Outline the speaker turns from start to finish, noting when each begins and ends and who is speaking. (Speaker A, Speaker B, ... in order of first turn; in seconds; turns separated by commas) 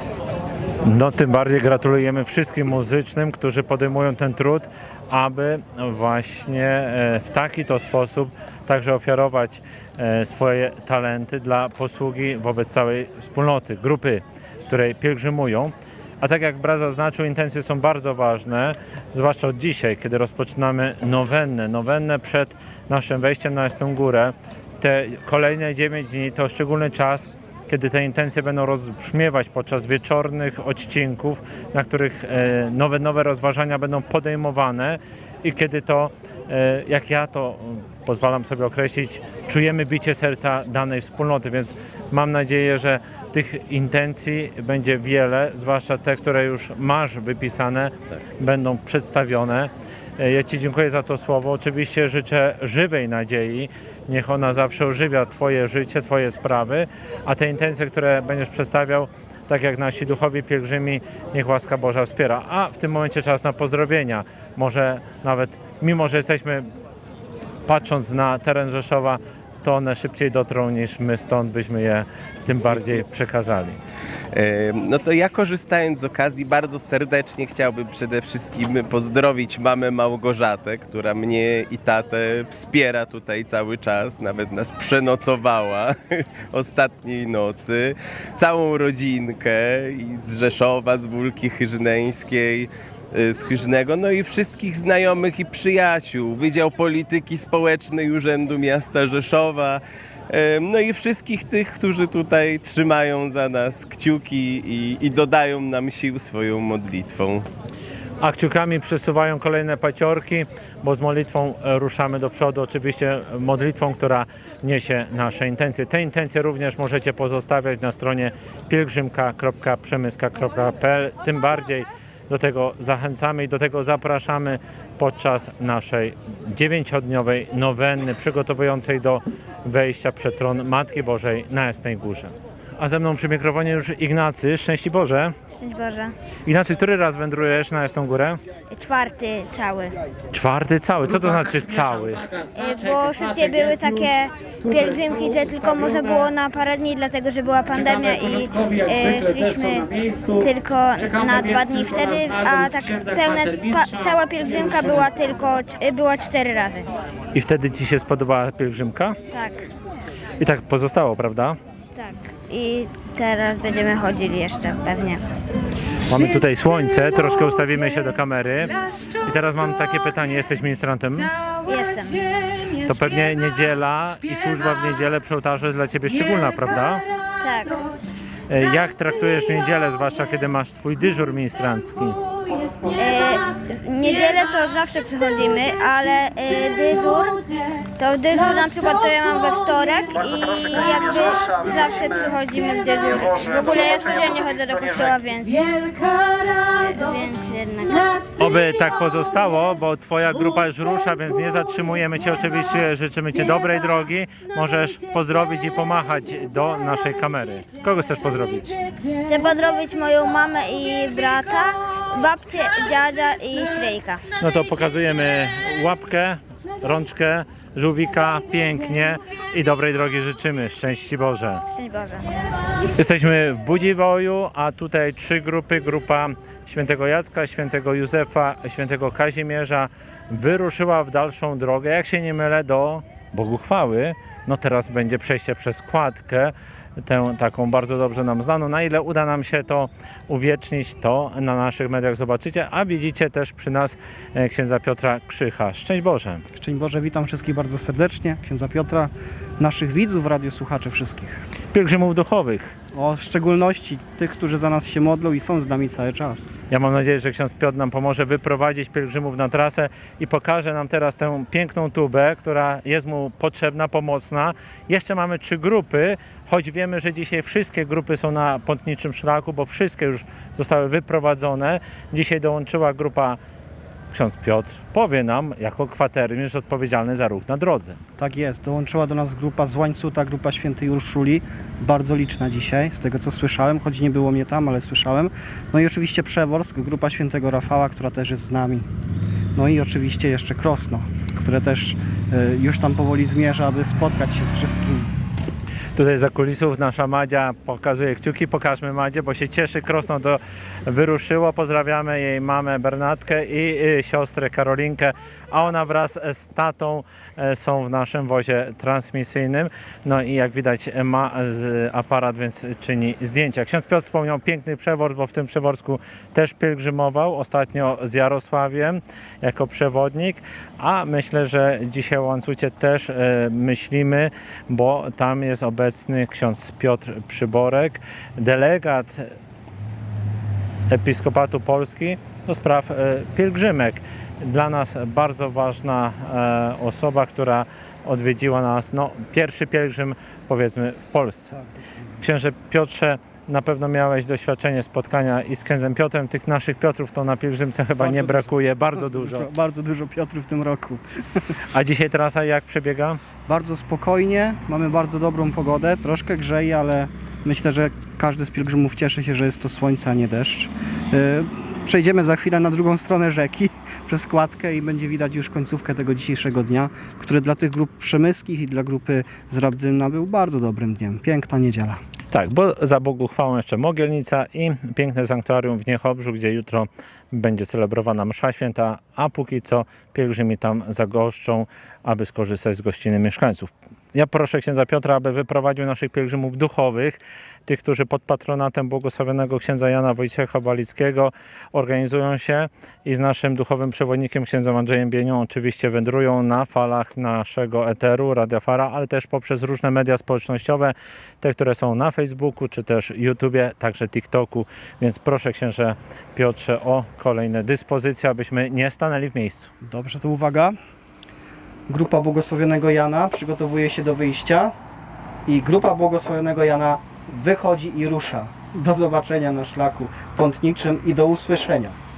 Speaker A: 0.8-66.7, Speaker A: 67.7-73.8, Speaker B: 74.3-107.5, Speaker A: 108.2-135.3, Speaker C: 135.5-136.1, Speaker A: 136.5-138.4, Speaker C: 138.7-139.9, Speaker A: 140.3-142.2, Speaker C: 142.6-156.9, Speaker A: 157.3-159.2, Speaker C: 159.3-159.7, Speaker A: 160.4-161.6, Speaker C: 162.0-165.2, Speaker A: 166.1-171.3, Speaker C: 171.7-172.3, Speaker A: 172.8-177.1, Speaker C: 177.4-177.9, Speaker A: 178.5-182.2, Speaker C: 182.9-187.4, Speaker C: 188.0-195.7, Speaker D: 191.3-191.8, Speaker D: 193.4-195.0, Speaker C: 196.8-198.1, Speaker A: 198.4-208.8, Speaker C: 209.3-214.2, Speaker A: 214.4-221.6, Speaker C: 221.7-222.3, Speaker A: 222.9-246.4, Speaker D: 246.6-251.5, Speaker A: 251.7-252.7, Speaker D: 252.9-256.6, Speaker A: 256.7-273.4, Speaker A: 274.1-278.0, Speaker D: 278.2-288.9, Speaker D: 289.6-295.1, Speaker A: 296.0-329.2, Speaker A: 330.9-341.5, Speaker A: 342.2-349.5, Speaker D: 348.0-351.4, Speaker A: 351.7-353.2, Speaker D: 353.5-372.0, Speaker A: 372.3-409.7, Speaker D: 409.8-410.8, Speaker D: 411.9-414.7, Speaker D: 415.5-422.0